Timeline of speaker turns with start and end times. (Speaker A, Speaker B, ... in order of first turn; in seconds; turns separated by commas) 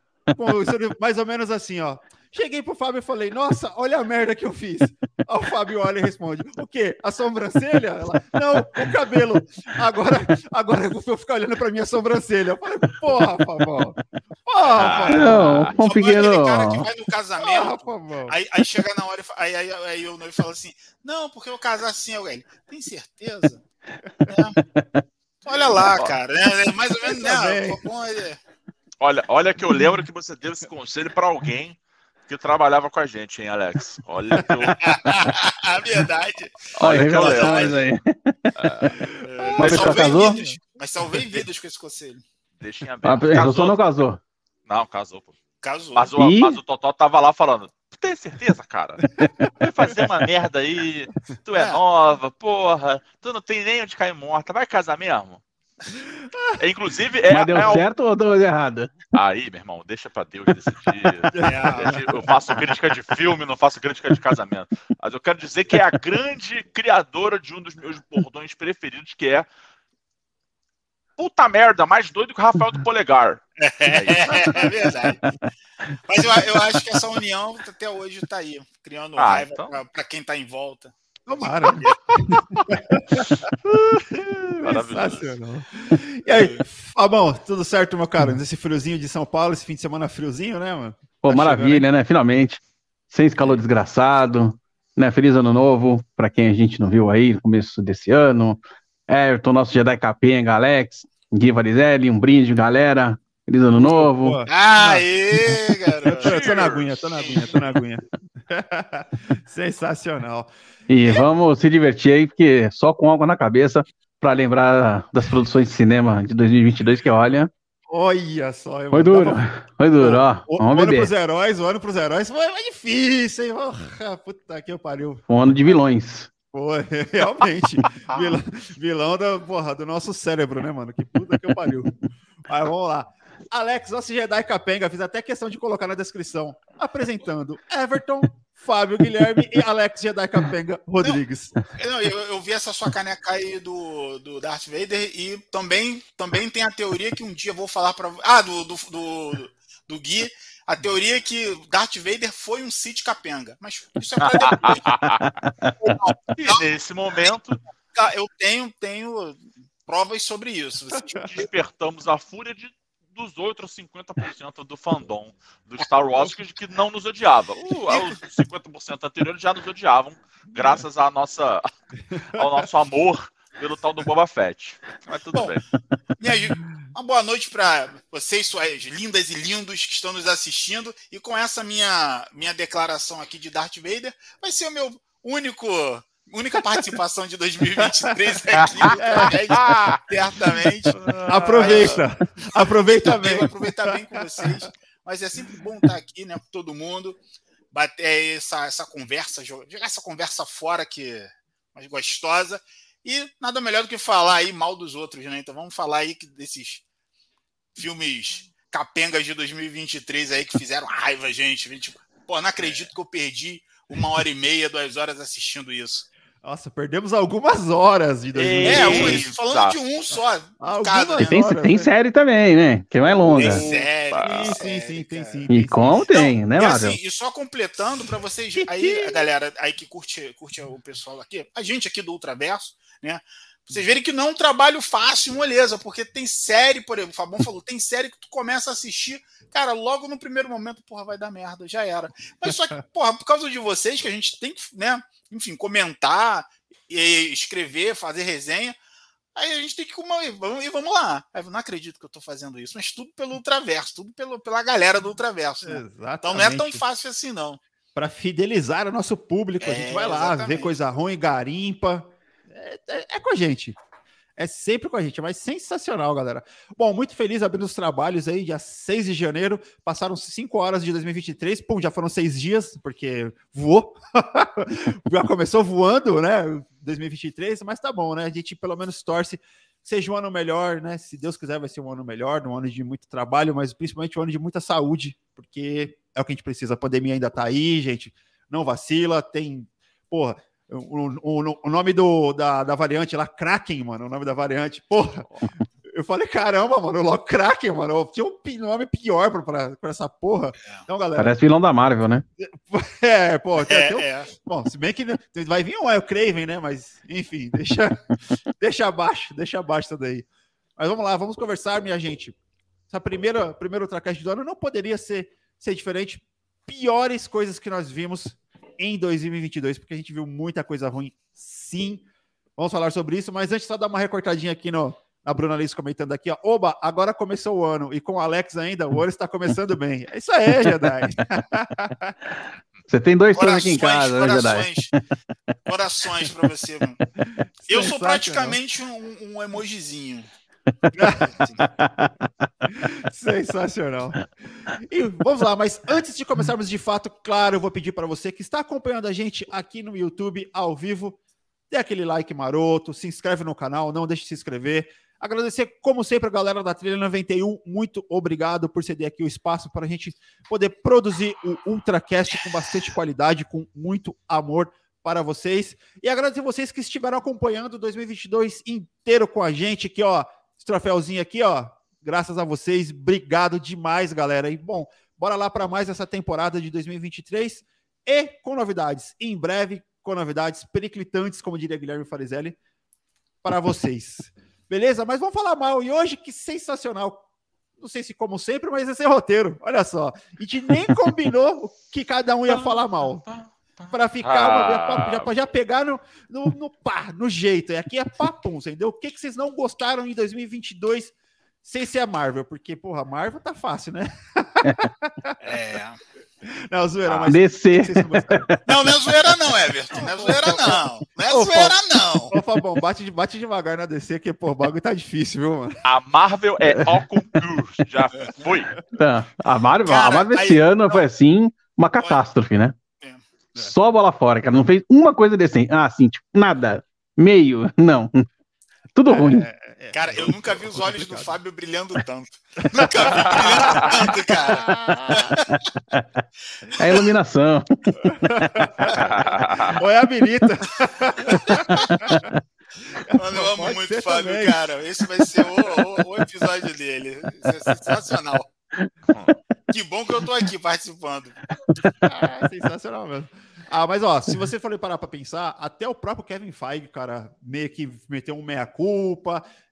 Speaker A: 0.3-15.5, Speaker B: 14.7-15.8, Speaker C: 15.0-16.9, Speaker D: 15.8-23.6, Speaker A: 17.4-18.4, Speaker D: 24.3-24.6, Speaker C: 24.6-25.0, Speaker D: 25.4-28.4, Speaker A: 27.0-27.8, Speaker B: 29.0-35.1, Speaker C: 34.6-35.3, Speaker D: 34.8-37.8, Speaker B: 36.7-37.8, Speaker C: 36.8-39.0, Speaker B: 38.5-38.9, Speaker A: 38.9-40.6, Speaker D: 39.2-42.2, Speaker C: 39.6-40.4, Speaker B: 39.6-40.0, Speaker B: 42.6-43.8, Speaker C: 43.0-44.2, Speaker B: 44.6-45.4, Speaker D: 45.6-46.1, Speaker B: 45.9-55.4, Speaker C: 46.1-46.6, Speaker A: 49.2-49.5, Speaker D: 51.5-51.8, Speaker A: 56.3-56.6, Speaker B: 56.6-57.8, Speaker C: 57.3-59.0, Speaker B: 59.1-69.5, Speaker A: 61.3-62.3, Speaker D: 61.4-62.0, Speaker B: 71.2-74.6, Speaker D: 73.6-75.2, Speaker D: 76.1-82.1, Speaker B: 79.2-79.7, Speaker A: 81.3-83.5, Speaker B: 82.1-82.5, Speaker B: 83.2-85.3, Speaker A: 84.6-91.9, Speaker D: 86.3-86.6, Speaker C: 91.2-104.4, Speaker A: 103.7-105.1, Speaker D: 104.5-106.6, Speaker A: 106.0-110.5, Speaker B: 106.1-107.3, Speaker D: 107.1-107.7, Speaker C: 110.9-117.5, Speaker A: 117.9-119.5, Speaker C: 118.9-121.1, Speaker A: 120.0-125.8, Speaker C: 125.3-126.3, Speaker A: 126.5-141.6, Speaker D: 141.7-155.1, Speaker B: 154.2-155.4, Speaker C: 155.6-155.9, Speaker D: 155.8-156.6, Speaker B: 156.3-157.6, Speaker D: 157.9-161.3, Speaker A: 160.9-161.2, Speaker B: 161.2-171.7, Speaker B: 172.2-175.6, Speaker A: 172.3-172.7, Speaker D: 176.2-192.0, Speaker A: 187.8-188.3, Speaker B: 188.5-190.0, Speaker A: 188.9-189.4, Speaker B: 190.9-192.0, Speaker A: 191.2-194.7, Speaker D: 193.0-197.2, Speaker D: 197.7-206.8, Speaker D: 207.8-216.1, Speaker A: 216.4-219.2, Speaker B: 218.3-219.8, Speaker D: 218.6-221.3, Speaker A: 220.6-221.9, Speaker C: 221.2-223.6, Speaker D: 223.2-248.8, Speaker B: 223.4-224.6, Speaker A: 223.6-226.0, Speaker C: 225.5-227.0, Speaker A: 228.5-229.2, Speaker D: 249.3-257.6, Speaker A: 255.6-256.8, Speaker A: 257.9-263.8, Speaker D: 259.6-260.7, Speaker A: 264.4-295.3, Speaker A: 295.9-301.4, Speaker C: 301.2-302.2, Speaker A: 302.4-310.2, Speaker D: 303.6-304.3, Speaker A: 310.8-312.3, Speaker A: 312.9-322.0, Speaker A: 322.6-332.1, Speaker C: 332.9-334.7, Speaker D: 333.3-334.9, Speaker D: 335.6-337.0, Speaker A: 337.6-338.6, Speaker D: 337.7-340.2, Speaker A: 340.9-351.2, Speaker D: 341.3-341.7, Speaker A: 351.7-382.6, Speaker A: 383.4-387.2, Speaker A: 387.8-393.2, Speaker B: 392.5-395.3, Speaker A: 393.9-405.4, Speaker D: 405.4-406.0, Speaker A: 406.4-408.5, Speaker C: 407.2-408.6, Speaker D: 408.6-412.3, Speaker A: 409.9-415.8, Speaker B: 415.8-418.8, Speaker C: 416.7-417.0, Speaker D: 418.1-418.4, Speaker C: 418.9-422.8, Speaker D: 419.8-421.1, Speaker D: 422.0-422.2, Speaker C: 423.6-428.2, Speaker C: 428.9-429.4, Speaker A: 429.1-431.4, Speaker D: 429.9-435.6, Speaker A: 432.7-435.4, Speaker D: 436.6-437.1, Speaker C: 436.7-438.1, Speaker A: 438.0-442.3, Speaker B: 438.9-439.8, Speaker D: 441.2-442.1, Speaker C: 441.5-442.2, Speaker A: 443.0-444.7, Speaker D: 443.1-448.5, Speaker B: 449.1-449.3, Speaker D: 449.7-451.5, Speaker A: 452.0-459.4